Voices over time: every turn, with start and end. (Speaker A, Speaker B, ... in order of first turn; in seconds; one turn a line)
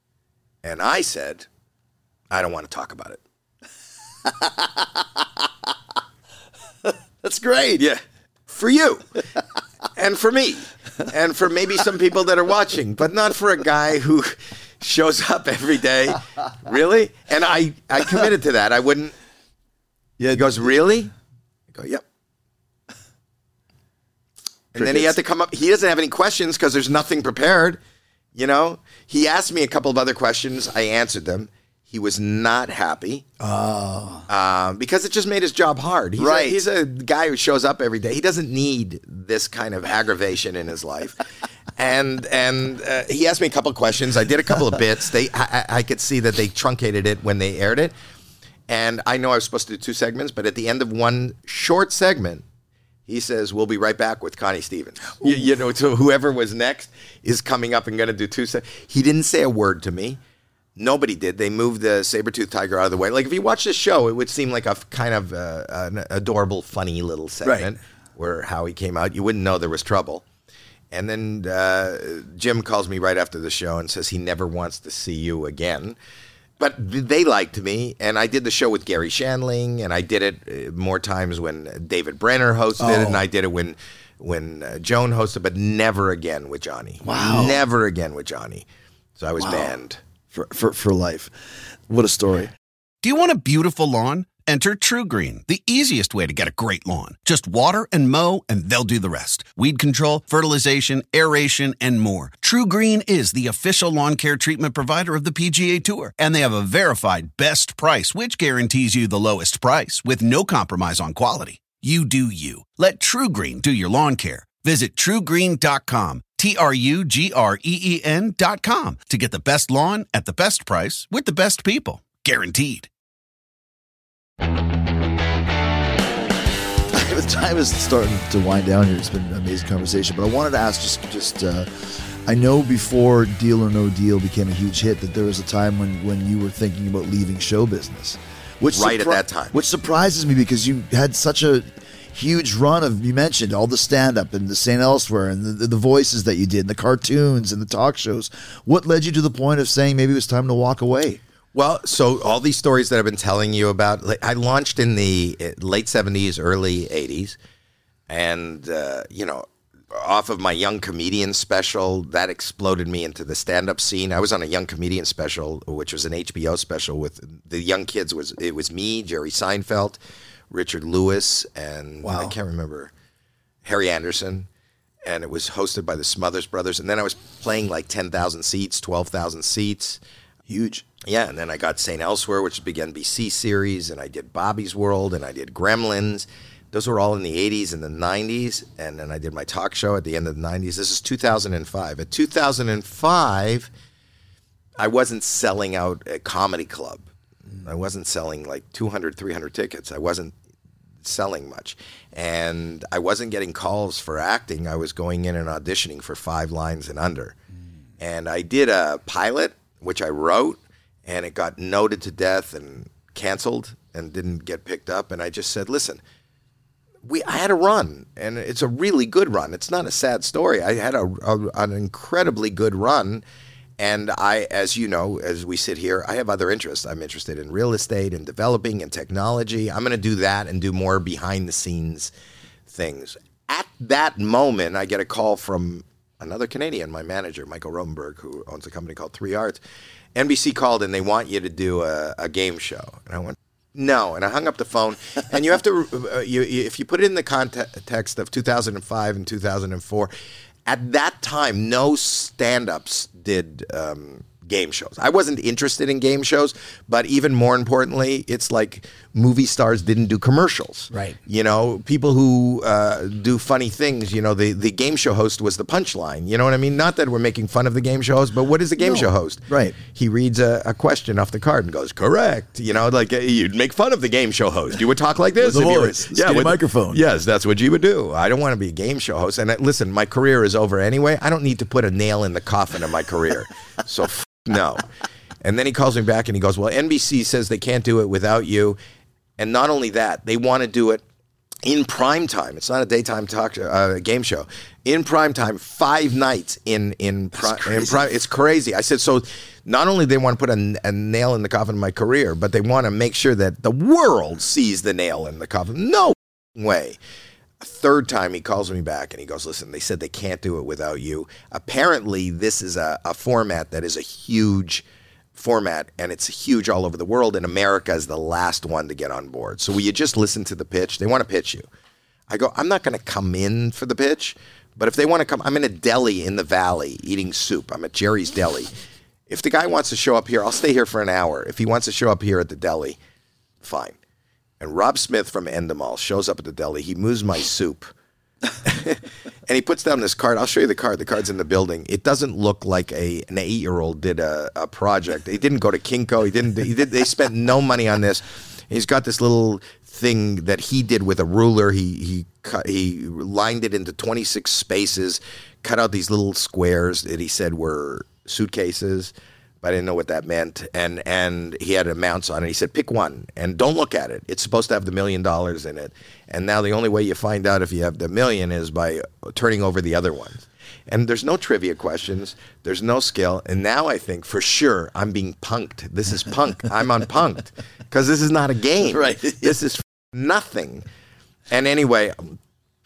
Speaker A: 0.6-1.5
Speaker A: 2.3-3.2
Speaker B: 4.2-5.4
Speaker B: 6.8-7.8
Speaker A: 7.8-9.2
Speaker A: 9.9-19.1
Speaker B: 20.2-20.5
Speaker A: 20.3-21.1
Speaker A: 21.7-22.0
Speaker A: 24.7-27.8
Speaker B: 24.8-25.1
Speaker A: 28.3-33.3
Speaker B: 33.4-34.2
Speaker A: 34.3-41.2
Speaker B: 36.2-36.6
Speaker A: 41.8-47.9
Speaker A: 48.7-52.4
Speaker A: 53.0-60.2
Speaker A: 60.8-70.2
Speaker B: 67.4-67.7
Speaker A: 70.9-76.0
Speaker A: 76.6-88.7
Speaker B: 82.8-83.2
Speaker B: 87.0-87.6
Speaker A: 89.2-90.0
Speaker B: 89.4-89.7
Speaker B: 90.3-91.3
Speaker B: 91.9-92.5
Speaker C: 93.0-122.9
Speaker B: 126.9-151.2
Speaker A: 138.7-139.6
Speaker A: 151.5-157.4
Speaker A: 158.1-170.0
Speaker A: 170.5-172.9
Speaker B: 172.0-172.3
Speaker A: 173.6-174.5
Speaker A: 175.0-180.0
Speaker B: 180.5-180.8
Speaker A: 181.0-193.7
Speaker A: 194.8-197.1
Speaker A: 197.6-200.3
Speaker A: 201.0-207.3
Speaker A: 208.0-216.0
Speaker A: 217.0-223.2
Speaker A: 223.8-232.1
Speaker A: 232.7-239.6
Speaker A: 240.1-250.1
Speaker A: 250.7-284.8
Speaker B: 260.9-261.2
Speaker B: 268.8-269.8
Speaker B: 275.4-277.0
Speaker A: 285.4-288.8
Speaker A: 289.4-291.0
Speaker A: 291.6-307.0
Speaker B: 297.4-297.9
Speaker A: 307.6-321.6
Speaker A: 322.3-328.7
Speaker A: 329.3-333.0
Speaker A: 333.6-334.0
Speaker A: 334.6-337.9
Speaker A: 338.6-380.8
Speaker B: 378.8-379.5
Speaker A: 381.5-382.4